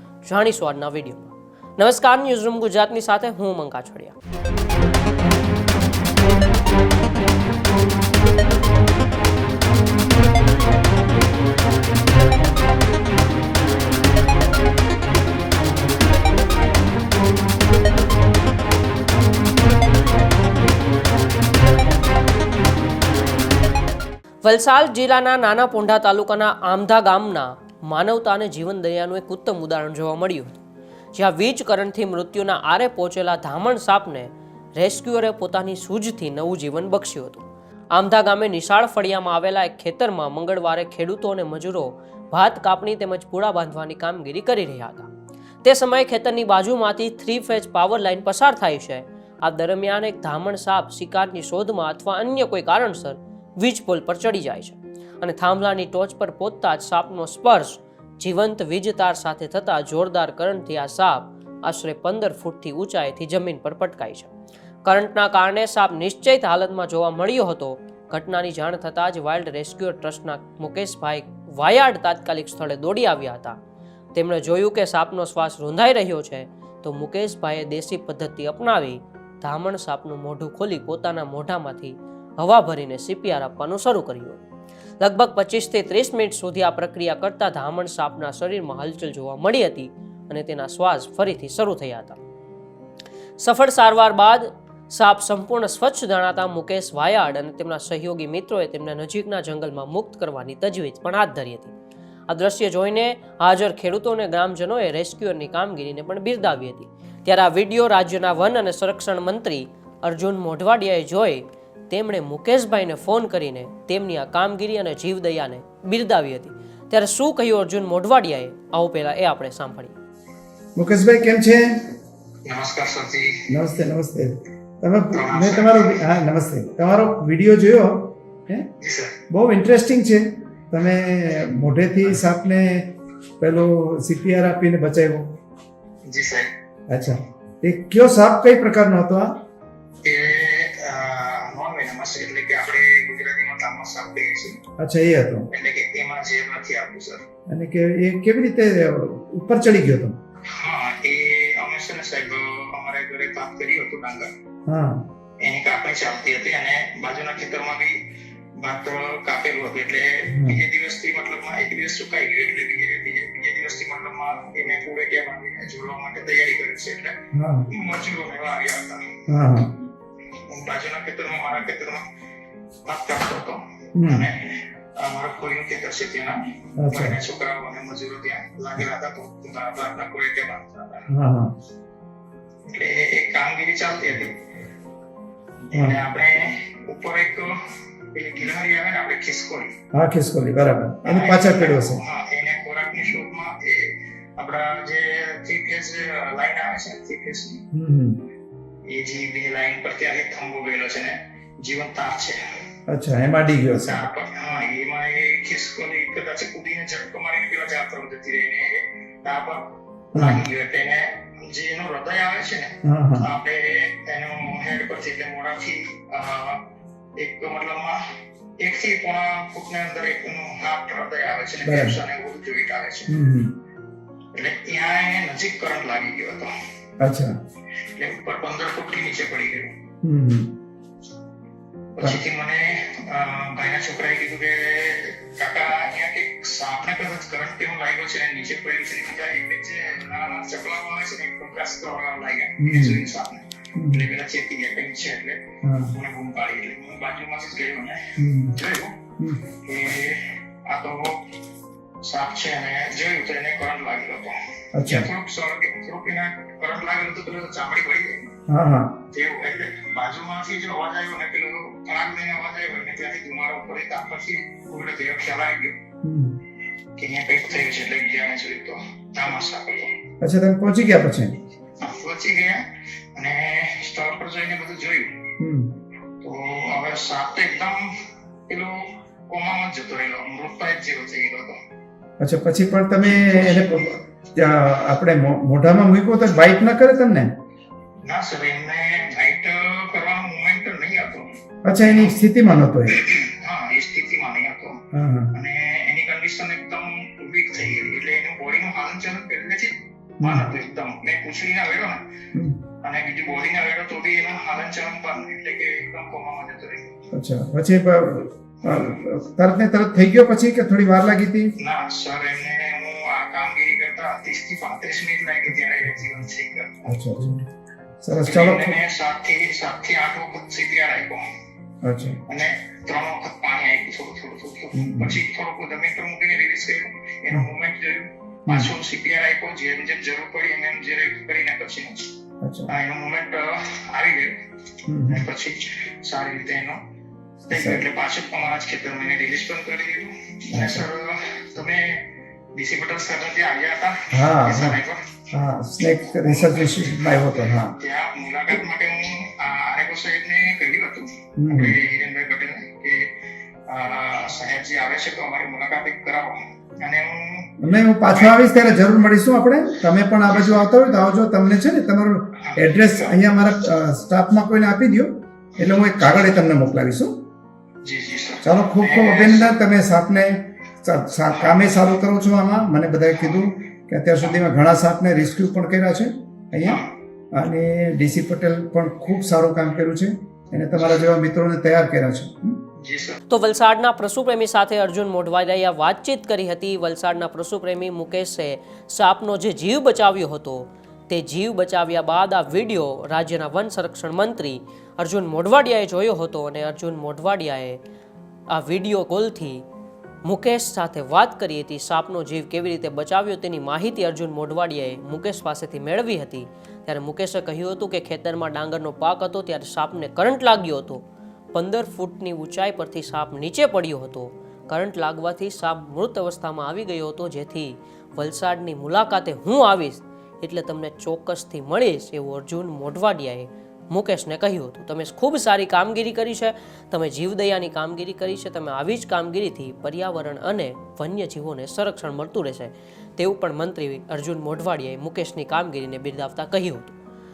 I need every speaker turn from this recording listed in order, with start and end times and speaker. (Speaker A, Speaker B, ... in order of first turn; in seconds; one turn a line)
Speaker A: 0.2-4.2
Speaker A: 24.4-30.6
Speaker A: 31.1-45.1
Speaker A: 45.6-64.3
Speaker A: 64.8-73.6
Speaker A: 74.1-84.4
Speaker A: 85.0-92.2
Speaker A: 93.4-101.7
Speaker A: 102.3-119.9
Speaker B: 120.8-121.8
Speaker C: 122.5-123.4
Speaker B: 123.5-128.7
Speaker C: 125.1-126.1
Speaker C: 128.8-129.2
Speaker B: 129.3-132.9
Speaker B: 133.4-135.2
Speaker C: 136.1-136.5
Speaker B: 136.9-139.3
Speaker C: 140.0-144.6
Speaker B: 144.8-145.5
Speaker C: 145.5-147.2
Speaker B: 147.5-150.2
Speaker C: 150.6-154.3
Speaker B: 154.7-155.0
Speaker C: 155.4-157.9
Speaker C: 158.6-167.2
Speaker B: 160.3-160.6
Speaker B: 167.3-167.7
Speaker C: 167.7-169.2
Speaker B: 169.3-169.7
Speaker C: 170.5-172.0
Speaker C: 172.8-181.1
Speaker B: 173.9-174.3
Speaker B: 176.8-177.2
Speaker B: 181.1-181.5
Speaker C: 182.7-184.3
Speaker C: 185.7-187.5
Speaker B: 185.7-186.0
Speaker C: 188.1-189.7
Speaker B: 189.9-192.0
Speaker C: 191.0-197.6
Speaker B: 197.7-198.2
Speaker C: 198.9-202.4
Speaker B: 202.9-204.0
Speaker C: 203.7-216.6
Speaker B: 210.1-210.4
Speaker B: 212.8-213.3
Speaker C: 217.2-218.0
Speaker C: 218.6-223.1
Speaker B: 221.6-222.0
Speaker B: 223.1-223.5
Speaker C: 224.3-226.5
Speaker B: 227.0-227.3
Speaker C: 228.0-229.7
Speaker B: 230.0-230.5
Speaker C: 232.0-248.0
Speaker B: 242.6-243.0
Speaker B: 243.8-244.1
Speaker B: 245.6-245.9
Speaker B: 248.2-248.5
Speaker C: 248.5-248.9
Speaker C: 249.6-251.2
Speaker C: 252.0-254.3
Speaker B: 254.7-255.1
Speaker C: 254.8-258.3
Speaker B: 258.5-259.0
Speaker C: 259.1-265.8
Speaker B: 266.0-266.4
Speaker C: 267.0-269.9
Speaker B: 270.2-271.3
Speaker C: 271.8-272.6
Speaker C: 273.1-275.1
Speaker B: 275.4-275.7
Speaker C: 276.2-277.8
Speaker C: 278.5-278.7
Speaker C: 279.3-281.6
Speaker B: 282.2-287.3
Speaker C: 283.1-283.9
Speaker C: 288.1-291.3
Speaker B: 291.6-293.0
Speaker C: 291.8-292.2
Speaker C: 292.9-294.8
Speaker B: 294.9-295.3
Speaker C: 295.3-302.0
Speaker B: 300.2-300.5
Speaker C: 302.8-306.9
Speaker B: 307.1-311.5
Speaker C: 311.6-317.0
Speaker B: 316.9-317.4
Speaker B: 318.0-318.8
Speaker C: 318.2-321.2
Speaker B: 321.8-322.2
Speaker C: 322.3-332.0
Speaker B: 324.7-325.2
Speaker B: 332.4-332.7
Speaker C: 332.7-334.3
Speaker B: 334.9-335.2
Speaker C: 335.1-336.8
Speaker B: 337.5-337.8
Speaker C: 337.5-342.0
Speaker B: 340.5-340.9
Speaker C: 342.6-345.2
Speaker B: 344.1-344.8
Speaker B: 345.3-347.7
Speaker C: 346.1-353.1
Speaker B: 351.4-351.8
Speaker C: 353.7-357.5
Speaker B: 357.6-367.1
Speaker C: 358.1-358.6
Speaker C: 360.2-360.7
Speaker C: 362.4-363.2
Speaker C: 365.6-366.4
Speaker C: 367.8-369.6
Speaker B: 368.4-376.8
Speaker C: 371.3-371.8
Speaker C: 373.1-373.5
Speaker C: 376.6-376.9
Speaker B: 377.3-382.6
Speaker C: 380.8-381.1
Speaker C: 382.8-383.2
Speaker A: 383.3-397.8
Speaker A: 398.5-399.6
Speaker A: 400.2-436.9